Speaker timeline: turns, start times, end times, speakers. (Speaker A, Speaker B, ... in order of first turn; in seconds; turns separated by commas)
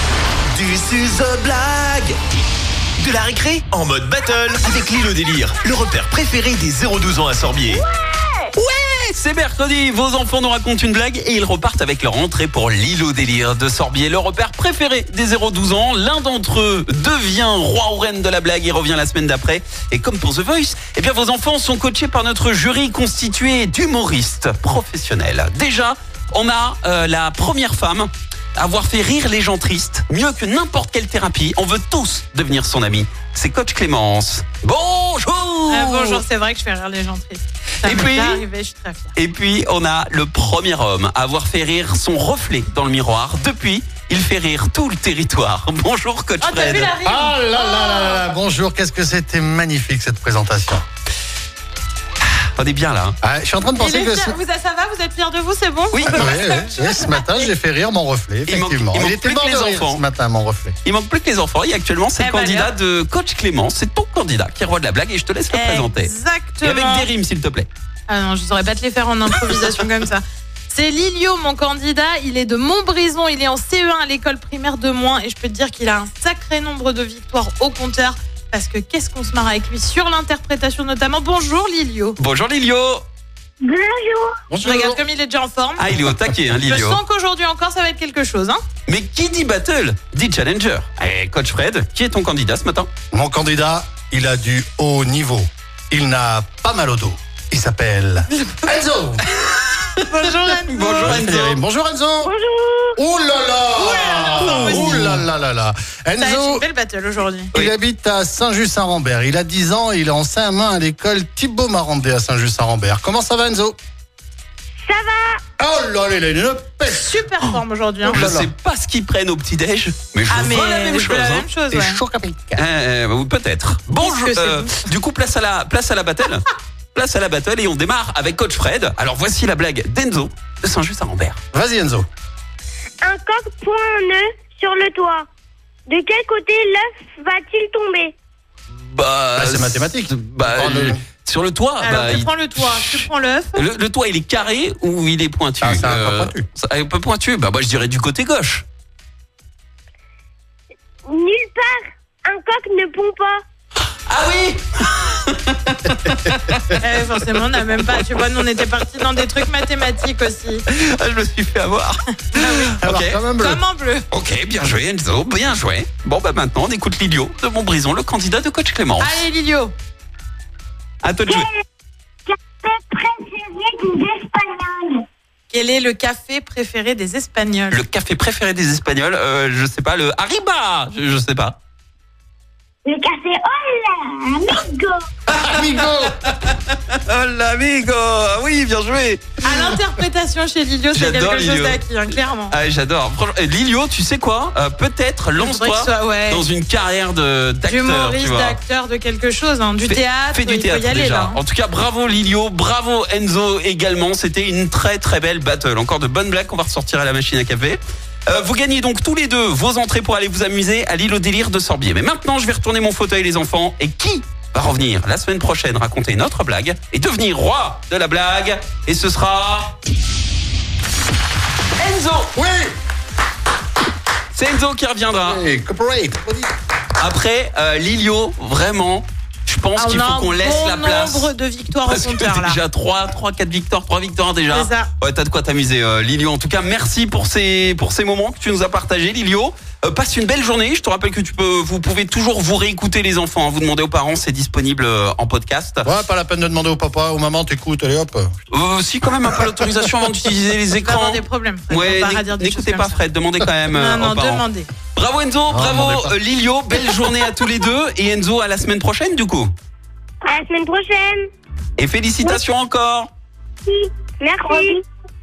Speaker A: 0.5-2.1, Speaker A: 3.0-7.8, Speaker B: 8.5-36.2, Speaker C: 35.7-39.1, Speaker B: 37.8-38.4, Speaker B: 39.1-46.9, Speaker C: 46.4-48.3, Speaker D: 47.0-50.8, Speaker B: 52.5-53.1, Speaker D: 53.2-54.4, Speaker C: 53.8-57.5, Speaker B: 55.9-56.5, Speaker D: 56.0-60.8, Speaker B: 58.5-60.0, Speaker B: 60.8-67.7, Speaker C: 62.2-62.7, Speaker C: 65.5-67.1, Speaker C: 68.1-82.2, Speaker B: 82.2-83.0, Speaker E: 83.6-84.4, Speaker D: 84.5-85.0, Speaker C: 84.6-85.9, Speaker B: 85.8-87.0, Speaker C: 86.6-88.6, Speaker B: 88.9-92.9, Speaker D: 93.1-99.2, Speaker C: 99.4-101.2, Speaker B: 100.2-101.6, Speaker D: 101.0-102.3, Speaker E: 102.2-103.0, Speaker D: 103.0-106.6, Speaker C: 103.8-105.2, Speaker B: 104.3-105.2, Speaker C: 106.2-107.5, Speaker D: 107.5-113.8, Speaker E: 114.8-115.4, Speaker D: 115.6-117.2, Speaker C: 116.9-118.2, Speaker D: 118.0-118.5, Speaker B: 118.1-121.5, Speaker C: 120.3-122.0, Speaker D: 121.7-122.6, Speaker B: 122.5-131.4, Speaker C: 124.0-124.9, Speaker D: 131.5-132.1, Speaker E: 133.0-135.2, Speaker E: 135.9-138.1, Speaker B: 138.7-148.6, Speaker D: 139.3-141.0, Speaker C: 141.8-143.7, Speaker D: 145.6-146.4, Speaker E: 151.1-153.4, Speaker B: 154.1-157.1, Speaker C: 156.8-160.6, Speaker B: 160.7-163.2, Speaker C: 162.3-162.8, Speaker D: 162.8-163.6, Speaker C: 163.4-164.1, Speaker B: 164.1-169.2, Speaker C: 169.0-169.7, Speaker B: 171.0-171.5, Speaker E: 172.3-175.0, Speaker C: 175.5-177.8, Speaker B: 177.7-181.6, Speaker E: 182.8-185.0, Speaker D: 185.3-186.1, Speaker B: 185.3-189.7, Speaker C: 189.4-192.6, Speaker B: 190.9-198.6, Speaker C: 195.3-196.4, Speaker C: 197.7-201.4, Speaker B: 199.8-219.8, Speaker B: 221.8-222.3, Speaker D: 222.3-222.7, Speaker B: 224.3-225.4, Speaker D: 225.1-226.5, Speaker B: 227.0-231.3, Speaker C: 229.7-232.6, Speaker B: 231.8-245.9, Speaker C: 234.5-234.9, Speaker D: 245.8-248.3, Speaker B: 248.5-259.5, Speaker C: 250.7-253.0, Speaker C: 253.7-254.7, Speaker D: 255.5-256.1, Speaker E: 260.2-261.3, Speaker B: 261.8-263.1, Speaker E: 263.6-264.8